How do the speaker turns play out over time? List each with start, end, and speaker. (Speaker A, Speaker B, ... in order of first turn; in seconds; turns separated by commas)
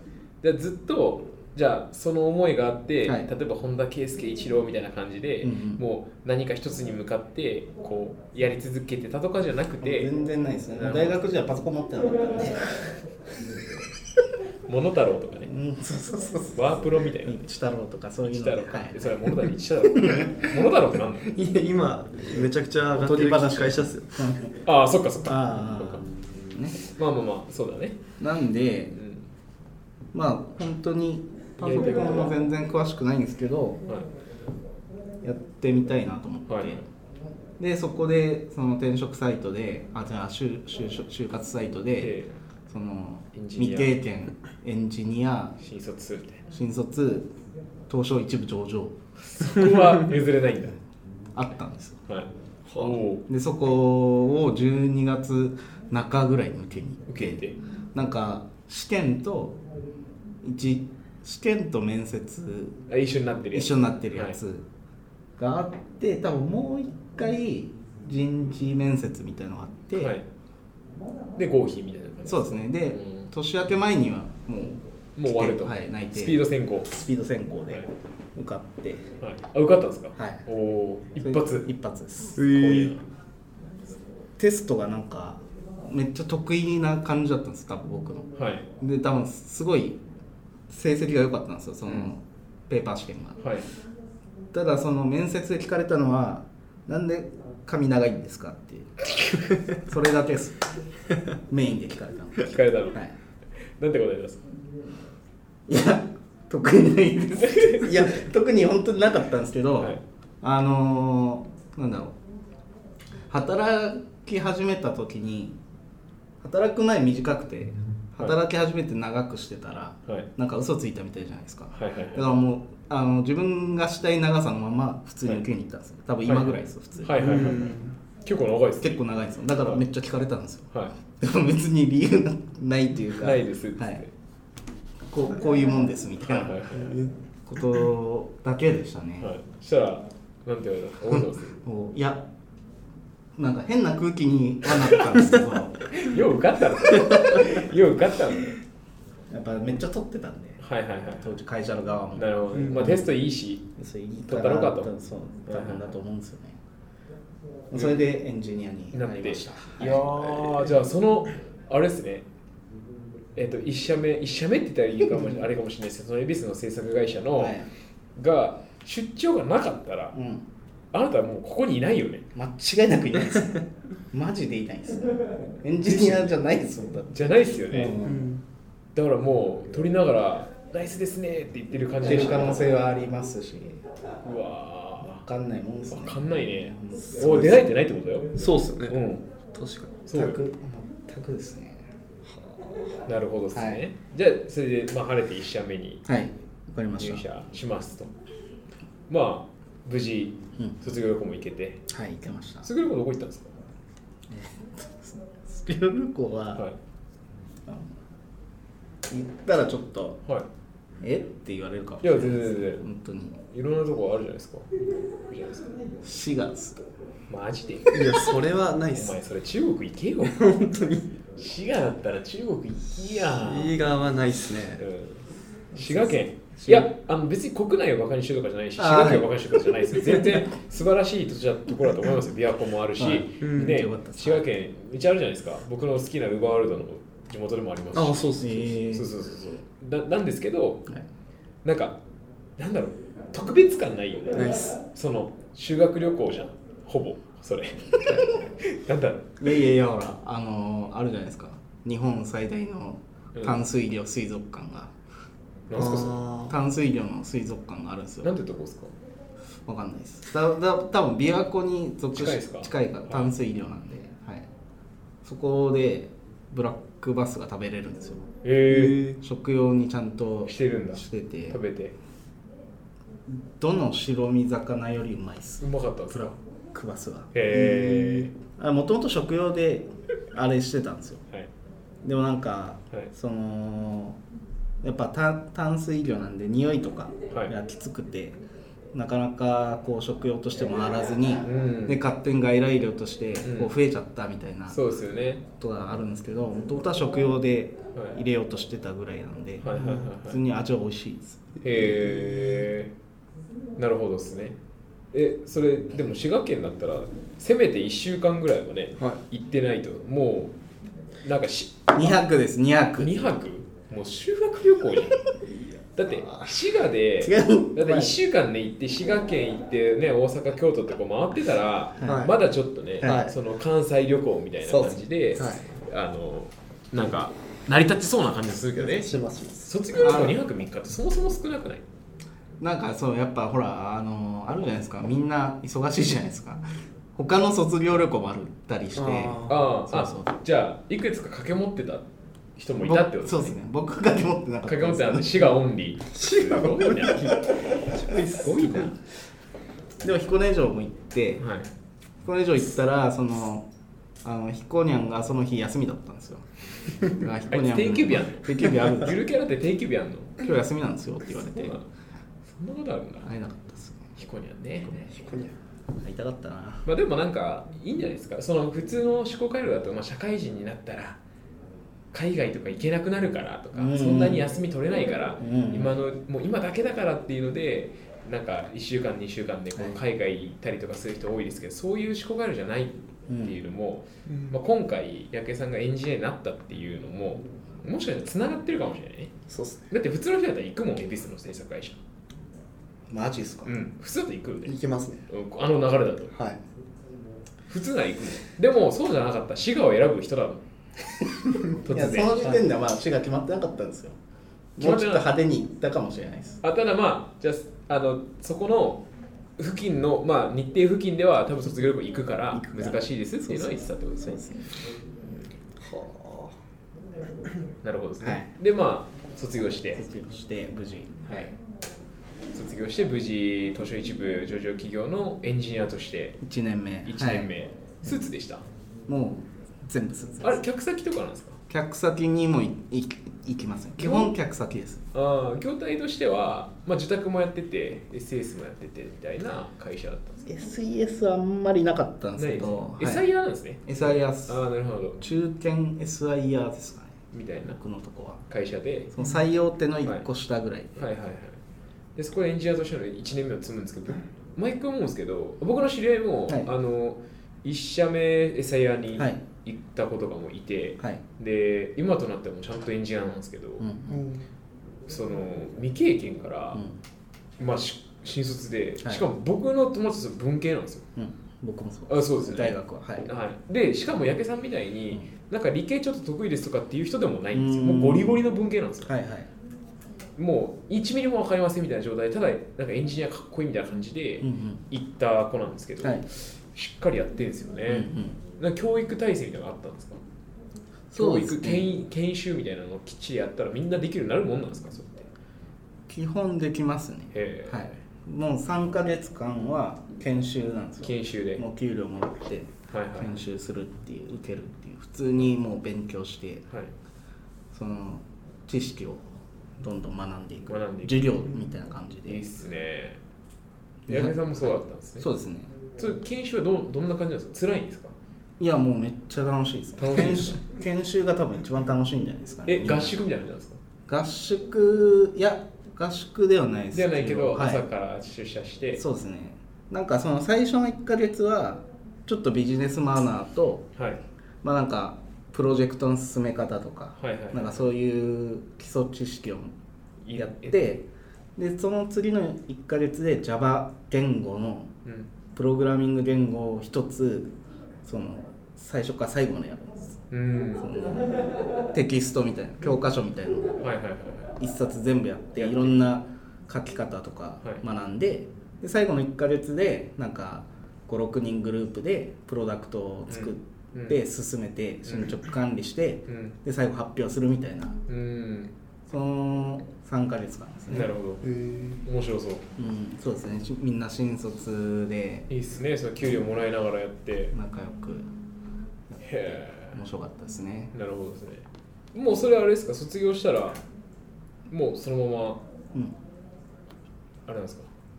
Speaker A: 0.4-10.1, Speaker B: 5.4-5.8, Speaker B: 9.8-12.8, Speaker A: 10.8-11.2, Speaker A: 14.7-15.5, Speaker B: 15.4-19.4, Speaker A: 16.5-17.4, Speaker A: 18.2-21.3, Speaker C: 21.2-24.3, Speaker B: 23.0-24.6, Speaker A: 24.6-26.0, Speaker B: 25.2-26.8, Speaker A: 26.8-28.0, Speaker B: 28.2-29.0, Speaker A: 28.9-29.2, Speaker B: 30.1-33.9, Speaker A: 31.6-32.3, Speaker B: 35.2-36.8, Speaker A: 36.5-36.8, Speaker B: 37.6-42.1, Speaker A: 42.0-42.3, Speaker B: 42.7-45.5, Speaker A: 43.3-44.0, Speaker A: 45.6-46.4, Speaker B: 46.5-47.3, Speaker B: 47.9-49.0, Speaker A: 49.2-50.8, Speaker B: 51.3-52.0, Speaker A: 52.1-53.2, Speaker C: 52.7-53.0, Speaker B: 53.3-59.6, Speaker A: 57.1-57.6, Speaker B: 60.4-62.8, Speaker A: 62.9-64.4, Speaker B: 63.5-64.7, Speaker B: 65.4-70.2, Speaker A: 70.0-70.3, Speaker A: 71.3-73.3, Speaker B: 72.2-79.1, Speaker A: 75.2-76.9, Speaker A: 79.2-81.7, Speaker B: 80.2-80.4, Speaker B: 81.2-82.7, Speaker C: 82.4-82.9, Speaker A: 82.4-83.1, Speaker B: 84.4-90.0, Speaker A: 88.4-88.7, Speaker B: 90.7-93.4, Speaker A: 93.4-93.7, Speaker B: 94.5-99.0, Speaker B: 99.8-100.7, Speaker B: 101.5-103.1, Speaker A: 102.4-103.0, Speaker A: 103.8-104.5, Speaker B: 105.7-112.2, Speaker A: 107.4-107.9, Speaker B: 113.3-115.6, Speaker B: 116.4-127.7, Speaker A: 121.7-122.3, Speaker A: 126.2-129.0, Speaker C: 127.2-127.9, Speaker B: 128.8-134.0, Speaker A: 133.2-134.1, Speaker B: 135.1-136.6, Speaker A: 136.2-137.0, Speaker C: 136.8-137.1, Speaker B: 137.4-139.3, Speaker A: 139.2-141.6, Speaker B: 141.1-142.2, Speaker B: 143.3-145.9, Speaker A: 145.9-148.6, Speaker C: 146.9-147.4, Speaker B: 149.3-150.6, Speaker A: 150.6-151.3, Speaker B: 151.2-153.0, Speaker A: 152.2-153.7, Speaker C: 152.6-152.9, Speaker B: 153.8-156.6, Speaker A: 154.3-154.9, Speaker A: 155.5-155.9, Speaker B: 157.7-160.7, Speaker A: 158.9-162.2, Speaker A: 163.3-167.6, Speaker B: 167.4-167.7, Speaker A: 168.2-170.1, Speaker B: 170.1-170.4, Speaker A: 170.9-172.2, Speaker B: 172.3-173.6, Speaker B: 174.1-178.3, Speaker A: 175.9-176.3, Speaker A: 177.1-178.0, Speaker C: 177.9-178.4, Speaker A: 178.9-182.7, Speaker B: 182.0-183.8, Speaker A: 184.2-185.2, Speaker B: 185.1-187.7, Speaker A: 185.9-189.2, Speaker C: 188.3-189.0, Speaker C: 189.5-189.9, Speaker A: 190.1-190.4, Speaker B: 190.1-191.9, Speaker C: 192.3-193.0, Speaker A: 193.1-196.0, Speaker B: 193.5-193.8, Speaker B: 196.1-197.2, Speaker A: 197.0-198.1, Speaker A: 199.1-201.8, Speaker B: 201.9-202.7, Speaker A: 202.6-203.5, Speaker B: 204.3-206.6, Speaker B: 207.7-207.9, Speaker B: 209.1-210.2, Speaker B: 211.0-213.4, Speaker A: 212.0-212.8, Speaker A: 213.5-214.7, Speaker A: 215.3-215.7, Speaker B: 216.0-216.8, Speaker A: 217.3-218.1, Speaker C: 217.9-219.2, Speaker A: 218.9-220.5, Speaker C: 220.2-221.1, Speaker A: 221.3-223.8, Speaker C: 223.1-224.8, Speaker A: 224.8-240.9, Speaker B: 225.7-226.9, Speaker B: 228.8-229.4, Speaker B: 233.0-234.4, Speaker C: 233.4-233.8, Speaker C: 237.9-238.8, Speaker B: 238.4-239.1, Speaker A: 241.6-242.0, Speaker A: 242.6-249.4, Speaker C: 244.3-244.8, Speaker B: 249.4-254.9, Speaker A: 253.3-253.6, Speaker A: 255.7-256.2, Speaker C: 255.7-256.5, Speaker B: 256.5-258.3, Speaker A: 258.2-258.9, Speaker B: 259.6-264.5, Speaker A: 262.1-263.3, Speaker B: 265.2-268.3, Speaker A: 268.4-269.1, Speaker C: 268.7-269.1, Speaker B: 269.1-271.6, Speaker A: 270.4-271.9, Speaker B: 273.3-281.2, Speaker A: 275.6-276.4, Speaker A: 277.3-278.3, Speaker B: 282.0-284.2, Speaker B: 284.8-288.4, Speaker B: 288.9-294.8, Speaker A: 291.4-292.0, Speaker A: 293.4-293.7, Speaker A: 294.7-295.4, Speaker B: 295.5-301.4, Speaker A: 299.6-300.4, Speaker A: 301.6-302.9, Speaker C: 301.9-302.6, Speaker A: 303.8-304.6, Speaker A: 305.1-310.5, Speaker A: 311.2-312.2, Speaker B: 311.9-313.4, Speaker A: 313.0-315.2, Speaker A: 315.9-331.8, Speaker B: 317.2-318.1, Speaker B: 322.0-322.3, Speaker C: 322.0-322.4, Speaker C: 323.0-323.4, Speaker C: 324.7-325.6, Speaker C: 328.8-329.7, Speaker B: 330.0-330.4, Speaker B: 332.6-340.3, Speaker C: 338.9-339.6, Speaker A: 339.5-343.6, Speaker B: 342.8-345.5, Speaker A: 344.6-349.0, Speaker C: 346.1-348.9, Speaker B: 350.0-351.4, Speaker A: 351.4-351.7, Speaker B: 352.2-353.7, Speaker B: 354.2-356.4, Speaker B: 357.1-359.2, Speaker A: 357.5-360.4, Speaker B: 360.4-361.8, Speaker A: 361.6-361.9, Speaker A: 362.5-363.3, Speaker B: 363.2-364.1, Speaker A: 364.2-365.1, Speaker C: 365.1-365.5, Speaker B: 366.0-366.9, Speaker A: 366.8-371.2, Speaker A: 372.1-389.3, Speaker B: 373.7-374.5, Speaker B: 375.4-375.9, Speaker B: 383.3-383.6, Speaker C: 384.3-384.5, Speaker C: 389.5-389.9, Speaker A: 389.9-392.0, Speaker B: 393.1-393.7, Speaker A: 393.6-394.7, Speaker C: 394.6-395.2, Speaker A: 395.3-396.3, Speaker C: 396.3-396.6, Speaker A: 397.7-400.6, Speaker A: 401.7-402.5, Speaker B: 401.9-404.2, Speaker B: 404.8-406.6, Speaker A: 404.8-405.3, Speaker A: 406.6-409.0, Speaker A: 409.6-414.4, Speaker B: 412.5-414.7, Speaker C: 415.8-416.6, Speaker A: 417.8-420.0, Speaker B: 418.2-418.5, Speaker B: 419.9-421.5, Speaker A: 421.3-421.5, Speaker A: 422.5-426.4, Speaker B: 426.4-427.5, Speaker A: 427.1-428.6, Speaker B: 429.1-430.6, Speaker A: 430.4-431.6, Speaker B: 431.7-435.1, Speaker A: 434.0-434.3, Speaker A: 435.1-440.4, Speaker B: 440.4-443.2, Speaker A: 442.4-445.2, Speaker B: 443.8-444.6, Speaker B: 445.2-448.4, Speaker A: 447.3-447.8, Speaker A: 448.5-449.1, Speaker B: 449.1-451.0, Speaker A: 450.9-451.6, Speaker A: 452.1-463.9, Speaker B: 459.1-459.4, Speaker B: 463.8-464.3, Speaker C: 464.1-464.4, Speaker A: 465.1-466.8, Speaker A: 467.6-471.1, Speaker B: 471.1-473.3, Speaker A: 472.1-479.1, Speaker B: 477.5-478.4, Speaker B: 479.1-479.5, Speaker A: 480.4-490.2, Speaker B: 484.4-484.8, Speaker B: 487.9-488.4, Speaker B: 491.1-491.9, Speaker A: 491.1-495.3, Speaker B: 496.1-506.6, Speaker A: 497.3-498.0, Speaker A: 501.0-501.6, Speaker A: 502.9-503.4, Speaker B: 507.7-509.2, Speaker B: 509.8-512.4, Speaker A: 510.7-511.3, Speaker A: 512.3-513.2, Speaker A: 514.1-515.3, Speaker B: 514.1-515.7, Speaker A: 516.0-518.1, Speaker B: 518.6-523.2, Speaker A: 520.0-520.6, Speaker A: 522.6-523.8, Speaker B: 524.1-527.8, Speaker A: 526.9-529.0, Speaker B: 529.0-533.9, Speaker A: 534.0-534.2, Speaker B: 534.6-539.7, Speaker A: 537.2-537.8, Speaker A: 540.2-540.9, Speaker B: 540.3-544.9, Speaker A: 545.0-545.3, Speaker B: 545.5-547.5, Speaker B: 548.0-550.2, Speaker A: 550.3-550.9, Speaker B: 550.8-551.3, Speaker B: 551.9-553.8, Speaker A: 553.8-554.6, Speaker B: 554.6-568.0, Speaker A: 555.6-556.0, Speaker A: 563.3-564.2, Speaker A: 565.1-565.3, Speaker A: 566.3-566.5, Speaker A: 568.1-568.7, Speaker B: 569.1-571.1, Speaker A: 570.9-571.4, Speaker C: 571.4-572.0, Speaker A: 572.0-572.6, Speaker B: 572.8-575.5, Speaker A: 575.5-577.5, Speaker B: 577.5-578.3, Speaker B: 579.1-580.9, Speaker A: 579.2-580.0, Speaker A: 580.9-583.8, Speaker A: 584.7-585.6, Speaker A: 587.5-587.9